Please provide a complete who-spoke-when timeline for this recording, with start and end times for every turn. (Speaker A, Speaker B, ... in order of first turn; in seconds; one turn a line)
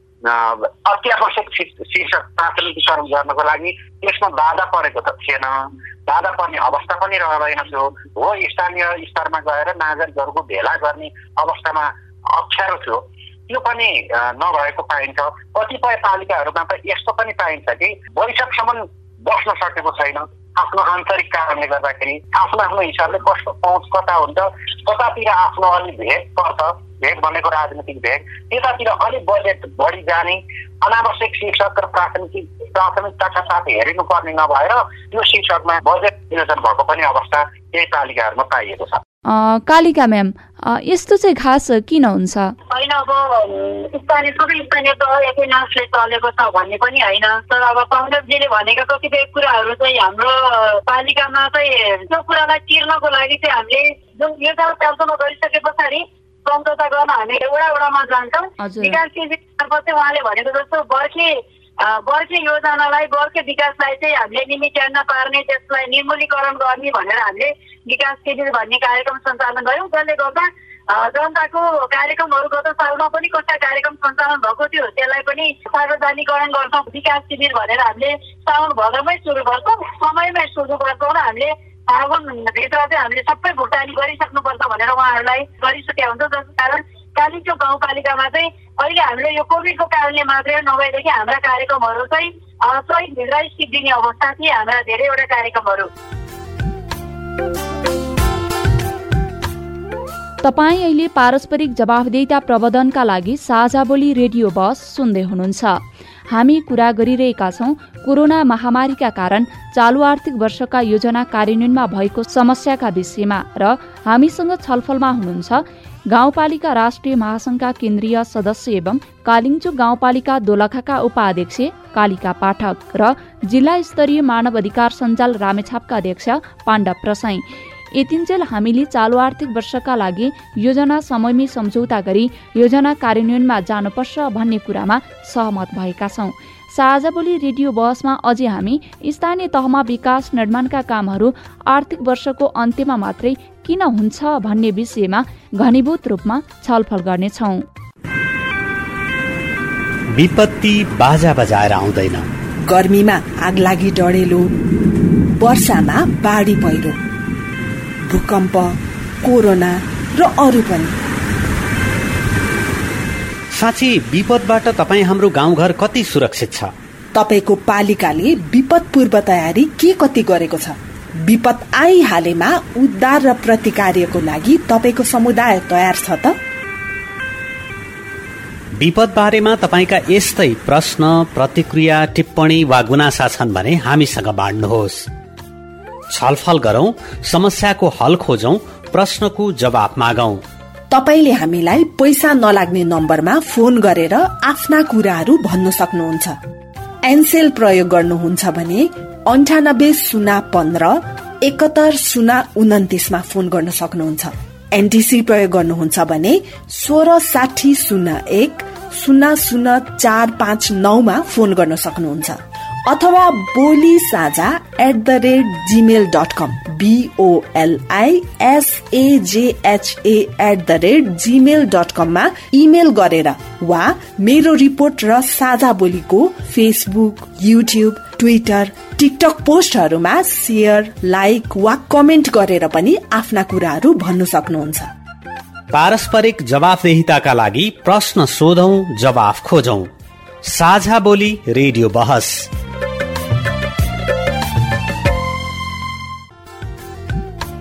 Speaker A: 0.2-39.0
Speaker B: 39.3-42.5
Speaker C: 42.7-95.9
Speaker B: 58.6-59.0
Speaker B: 100.4-147.6
Speaker D: 150.1-152.3
Speaker E: 152.7-154.5
Speaker E: 155.4-157.0
Speaker E: 158.1-160.9
Speaker D: 163.5-166.7
Speaker E: 167.1-176.4
Speaker D: 178.8-185.1
Speaker D: 186.1-190.4
Speaker E: 190.9-196.4
Speaker E: 197.0-234.9
Speaker D: 235.7-239.9
Speaker D: 240.4-242.4